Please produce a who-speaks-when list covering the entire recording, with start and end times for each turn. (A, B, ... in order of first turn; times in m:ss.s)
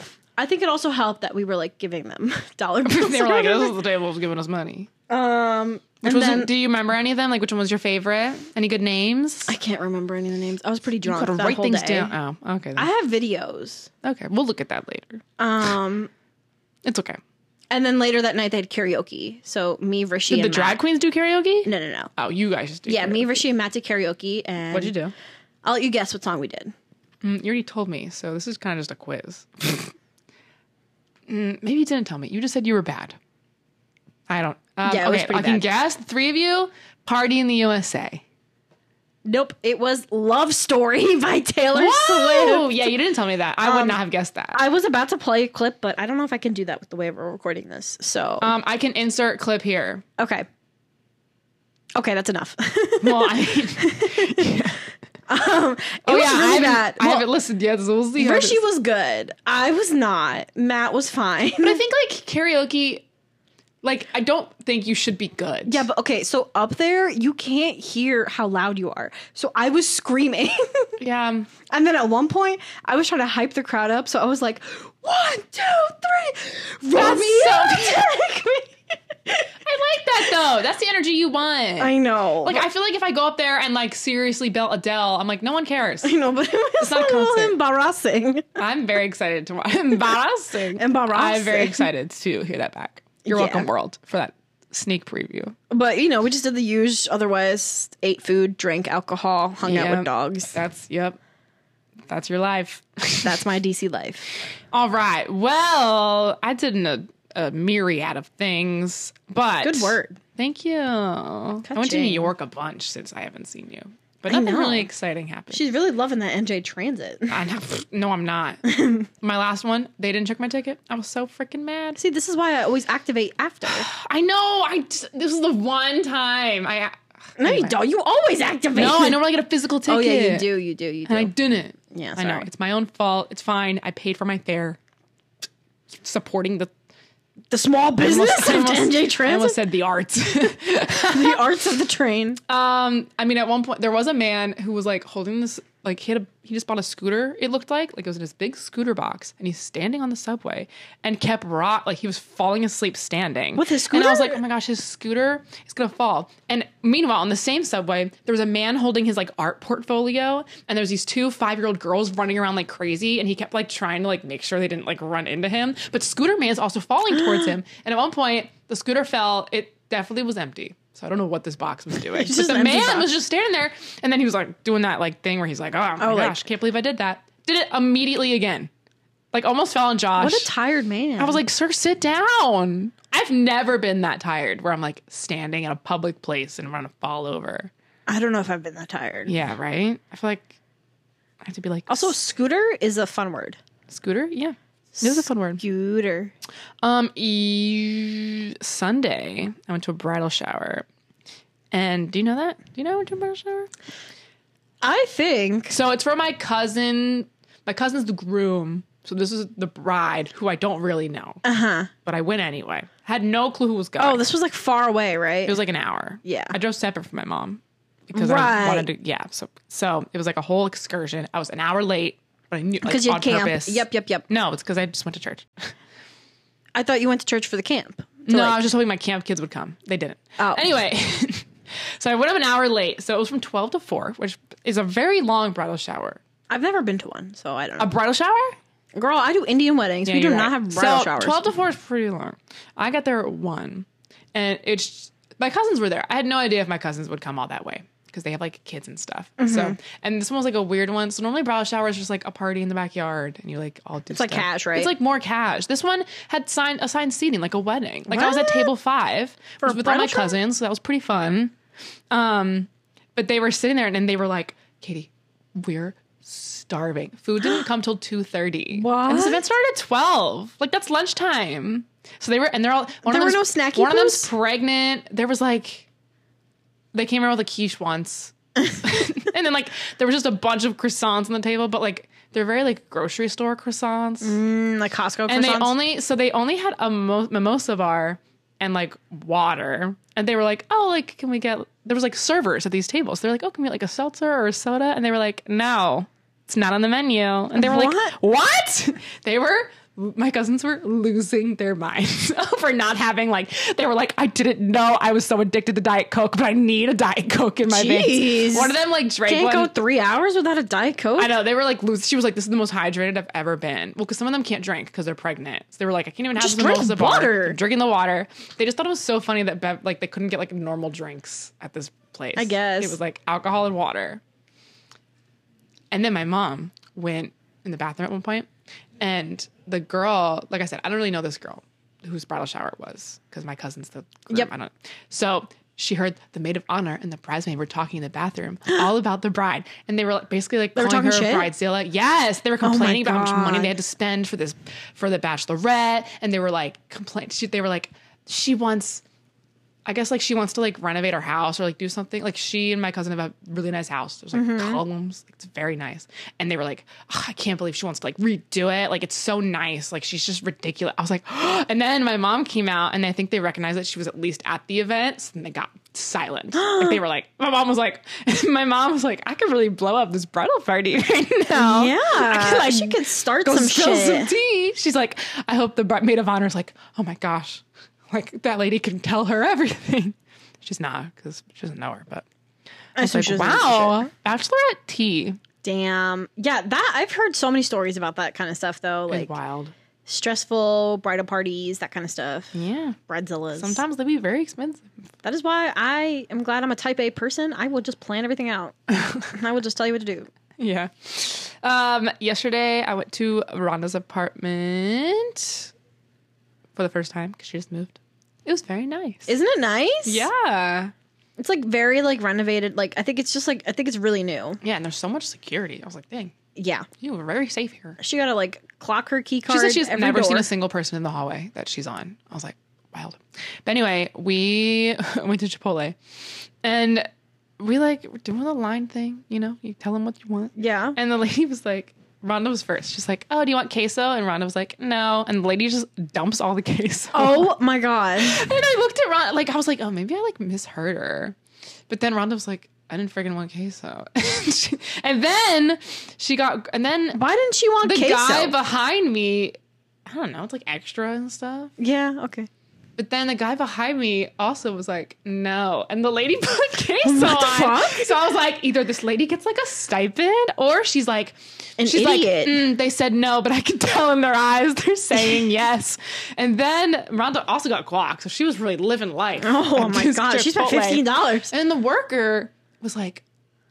0:00.4-0:03.8 A
0:02.8-0:04.9 B
0:05.1-0:06.5 A
0:06.0-0:09.6 B
0:09.5-0:12.1 A
0:11.0-0:12.9 B
0:12.8-0:13.9 A
0:14.0-0:15.2 B
0:15.4-0:16.1 A
0:16.8-0:17.2 B
0:17.7-0:20.8 A
0:20.3-0:23.4 B
0:21.6-0:22.1 A
0:22.8-0:24.9 A
0:24.7-0:25.1 B
0:25.6-0:26.7 A
0:27.2-0:29.9 B
0:31.3-0:33.2 B
0:34.3-0:38.2 B
0:34.8-0:35.6 A
0:39.2-0:42.7 A
0:41.7-0:44.6 B
0:43.6-0:44.0 A
0:44.5-0:48.5 A
0:48.4-0:50.0 B
0:50.2-0:50.4 A
0:51.9-0:54.6 A
0:53.0-0:54.8 B
0:55.3-0:57.3 A
0:56.0-0:58.6 B
0:58.2-1:01.8 A
1:01.6-1:03.0 B
1:03.8-1:05.8 B
1:05.7-1:11.0 A
1:11.0-1:11.5 B
1:11.7-1:19.5 A
1:16.9-1:18.1 B
1:19.6-1:26.1 B
1:21.8-1:22.6 A
1:26.0-1:28.6 A
1:26.8-1:27.5 B
1:28.6-1:35.6 B
1:30.8-1:31.8 A
1:33.2-1:33.7 A
1:35.7-1:40.6 A
1:39.6-1:41.2 B
1:42.1-1:43.3 B
1:43.2-1:44.3 A
1:44.7-1:55.6 B
1:49.6-1:50.2 A
1:51.6-1:52.3 A
1:54.3-1:54.9 A
1:55.5-1:57.4 A
1:57.3-1:58.6 B
1:58.6-1:59.1 A
1:59.2-2:02.0 B
2:02.0-2:03.9 A
2:03.7-2:07.8 B
2:07.4-2:09.2 A
2:08.7-2:10.5 B
2:09.9-2:11.3 A
2:11.1-2:14.8 B
2:11.9-2:12.5 A
2:16.0-2:16.7 B
2:17.5-2:19.6 A
2:18.0-2:21.4 B
2:20.8-2:22.4 A
2:22.5-2:58.7 B
2:33.6-2:34.4 A
2:52.1-2:53.1 A
2:56.0-2:56.4 A
2:59.3-3:00.5 B
3:00.2-3:01.4 A
3:01.2-3:07.7 B
3:08.1-3:09.3 A
3:09.2-3:10.6 B
3:11.4-3:12.1 B
3:11.9-3:13.6 A
3:13.9-3:15.6 B
3:14.9-3:16.3 A
3:16.8-3:20.8 B
3:21.7-3:23.7 B
3:24.8-3:25.7 A
3:25.7-3:31.4 B
3:31.4-3:31.9 A
3:32.0-3:34.2 B
3:34.0-3:35.6 A
3:35.4-3:45.7 B
3:36.2-3:36.5 A
3:38.1-3:38.9 A
3:42.8-3:44.2 A
3:46.7-3:48.6 A
3:48.3-3:56.2 B
3:50.4-3:50.6 A
3:56.5-3:57.9 A
3:57.8-3:58.5 B
3:58.9-4:01.4 A
4:00.0-4:21.5 B
4:09.4-4:09.8 A
4:14.1-4:14.9 A
4:18.1-4:18.7 A
4:19.6-4:20.4 A
4:22.1-4:35.9 B
4:28.7-4:29.4 A
4:33.0-4:34.3 A
4:36.9-4:44.4 B
4:44.2-4:45.7 A
4:45.3-5:09.7 B
4:57.6-4:58.1 A
5:07.7-5:11.3 A
5:11.2-5:24.2 B
5:16.4-5:17.6 A
5:22.4-5:23.0 A
5:25.9-5:28.5 B
5:29.0-5:49.0 B
5:40.8-5:41.5 A
5:42.6-5:43.7 A
5:49.8-6:22.2 B
5:54.3-5:54.8 A
6:06.5-6:07.0 A
6:11.5-6:14.3 A
6:23.0-6:24.1 A
6:23.0-6:25.4 B
6:25.6-6:29.3 A
6:29.1-6:29.7 B
6:30.0-6:32.5 A
6:32.5-6:33.0 B
6:33.1-6:33.8 A
6:33.6-6:34.9 B
6:35.2-6:38.8 A
6:38.9-6:39.3 B
6:39.3-6:40.3 A
6:40.6-6:45.7 B
6:46.7-6:49.3 B
6:49.3-6:50.3 A
6:50.0-6:50.9 B
6:51.4-6:54.6 A
6:54.6-6:56.3 B
6:56.5-6:56.9 A
6:57.0-6:58.0 B
6:58.0-7:00.5 A
6:59.5-7:06.0 B
7:06.6-7:07.1 B
7:07.6-7:17.5 B
7:10.6-7:11.0 A
7:17.1-7:18.5 A
7:18.2-7:21.4 B
7:21.9-7:27.2 B
7:27.1-7:28.6 A
7:27.8-7:31.7 B
7:31.8-7:32.5 A
7:33.0-7:53.2 B
7:37.0-7:38.1 A
7:41.8-7:42.6 A
7:49.4-7:51.5 A